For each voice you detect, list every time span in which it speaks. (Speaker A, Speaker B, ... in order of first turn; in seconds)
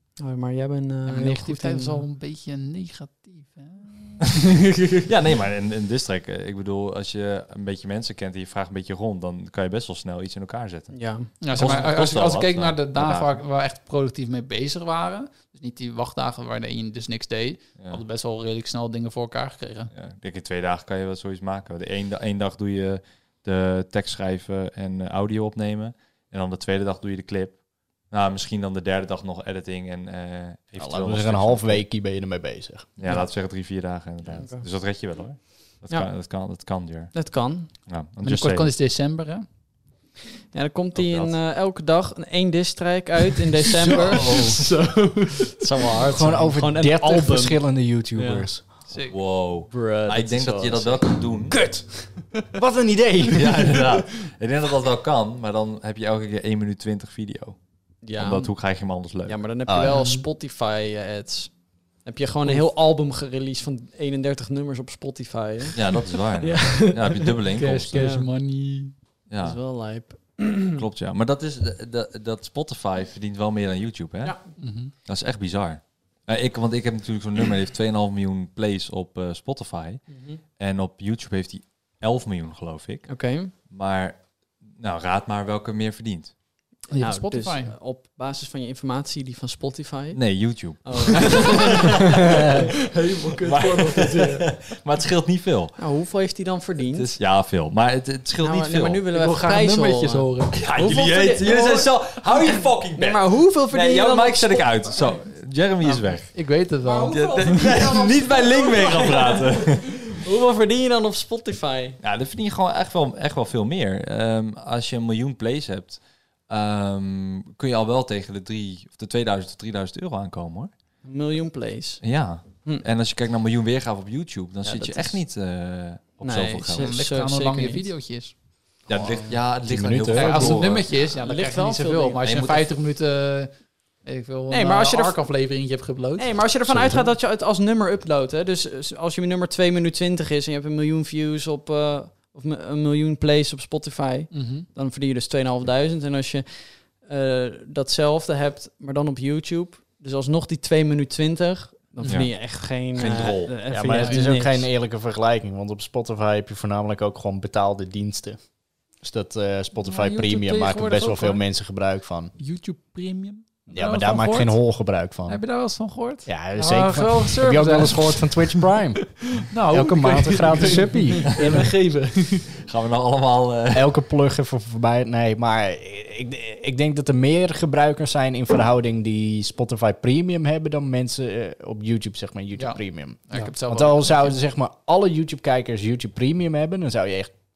Speaker A: 0.2-2.0, 10.9-11.3, 34.4-34.6, 37.1-37.7, 40.5-44.3, 45.6-47.6, 48.1-48.5, 49.7-51.1, 58.0-58.5, 59.2-67.3, 67.9-68.3, 69.4-70.8, 80.1-80.4, 83.1-83.5, 86.9-90.2, 90.8-92.5, 95.8-97.1, 98.4-101.9, 102.9-104.9, 106.8-112.0, 121.0-122.0, 124.6-125.2, 126.2-127.9, 131.1-132.2, 134.5-135.2, 136.2-154.7
Speaker B: 1.1-4.8, 11.4-19.9, 38.2-39.5, 44.0-45.6, 48.9-49.2, 59.8-60.2, 67.5-68.9, 74.6-74.9, 86.9-87.7, 92.3-94.5, 99.1-100.8, 106.3-107.9, 126.7-128.3, 130.1-136.4, 144.3-144.7, 153.9-154.3, 159.8-161.5, 162.4-164.6, 165.3-168.7, 169.2-172.5, 182.6-184.3
Speaker C: 5.0-13.4, 19.9-31.9, 33.0-38.7, 40.9-41.4, 44.0-44.6, 49.1-51.6, 53.3-57.6, 58.1-59.4, 65.8-68.0, 69.3-69.6, 70.7-84.2, 84.8-86.3, 90.1-92.6, 93.3-95.8, 96.9-99.0, 100.5-110.0, 112.0-120.7, 122.0-126.9, 128.9-130.9, 132.2-132.7, 152.0-153.5, 172.6-173.9
Speaker D: 30.8-32.9, 46.1-48.6, 51.5-53.9, 59.7-60.0, 128.9-130.6, 136.7-137.1, 153.7-158.4, 159.0-162.3, 163.7-165.4, 166.2-171.7, 173.7-187.3